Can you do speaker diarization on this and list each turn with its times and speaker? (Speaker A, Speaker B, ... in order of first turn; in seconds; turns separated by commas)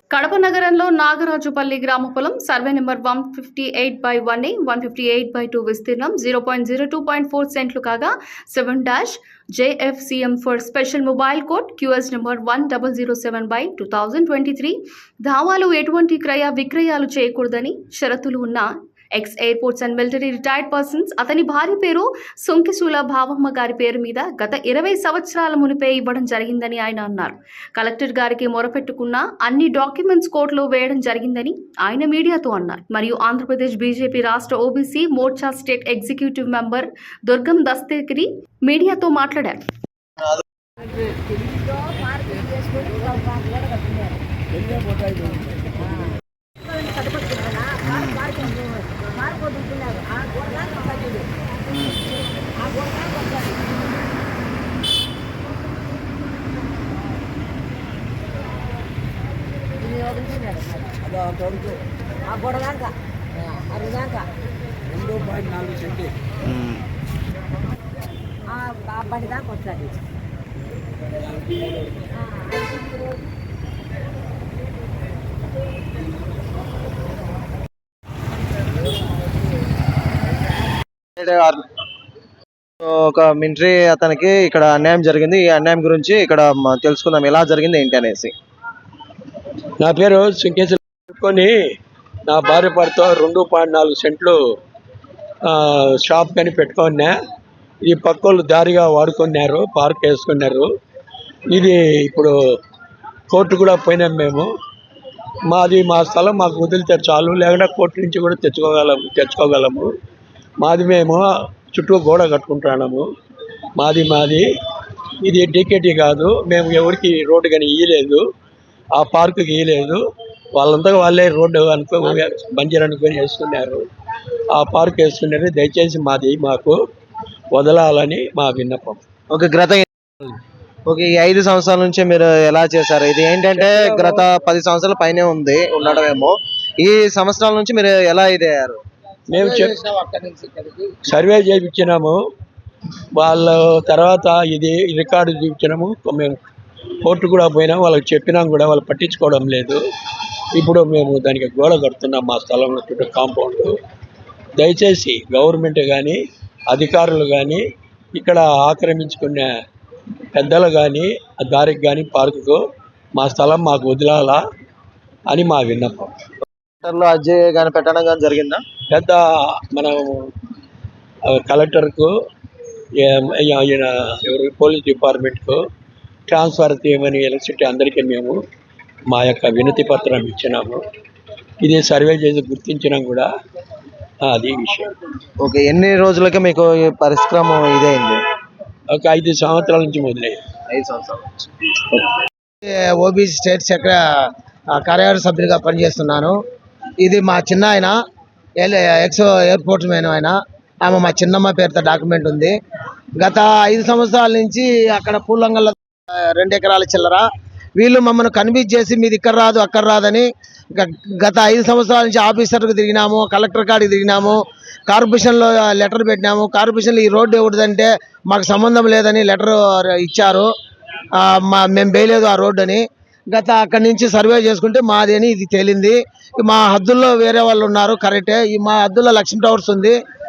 Speaker A: 0.1-39.6, Speaker B: 41.7-44.1, Speaker B: 46.8-51.2, Speaker B: 52.7-53.6, Speaker B: 59.9-60.9, Speaker B: 62.3-62.9, Speaker B: 63.6-64.3, Speaker B: 68.6-69.9, Speaker C: 81.2-81.6, Speaker C: 82.8-88.3, Speaker D: 89.8-91.5, Speaker D: 92.3-94.4, Speaker D: 95.5-97.1, Speaker D: 97.8-100.7, Speaker D: 101.5-102.3, Speaker D: 103.3-104.5, Speaker D: 105.5-109.9, Speaker D: 110.6-113.1, Speaker D: 113.8-114.5, Speaker D: 115.2-118.2, Speaker D: 119.0-120.0, Speaker D: 120.5-123.9, Speaker D: 124.5-126.8, Speaker D: 127.5-129.0, Speaker C: 129.3-129.8, Speaker C: 130.9-138.8, Speaker D: 139.3-139.8, Speaker E: 139.4-140.9, Speaker D: 141.1-142.2, Speaker D: 143.2-146.4, Speaker D: 147.0-149.8, Speaker D: 150.5-153.8, Speaker D: 154.6-156.2, Speaker D: 156.7-157.6, Speaker D: 158.1-159.5, Speaker D: 160.3-162.6, Speaker D: 163.2-164.4, Speaker D: 165.3-166.1, Speaker C: 166.8-168.6, Speaker D: 168.9-170.2, Speaker D: 171.3-172.1, Speaker D: 173.0-175.6, Speaker D: 176.3-178.4, Speaker D: 179.1-180.8, Speaker D: 181.6-183.3, Speaker D: 184.2-184.9, Speaker C: 185.4-188.2, Speaker D: 188.9-190.4, Speaker C: 190.7-192.1, Speaker E: 192.7-194.0, Speaker E: 194.7-196.4, Speaker E: 197.0-197.9, Speaker E: 198.6-202.6, Speaker E: 203.2-205.8, Speaker E: 206.4-207.2, Speaker E: 207.8-220.5, Speaker E: 221.2-230.0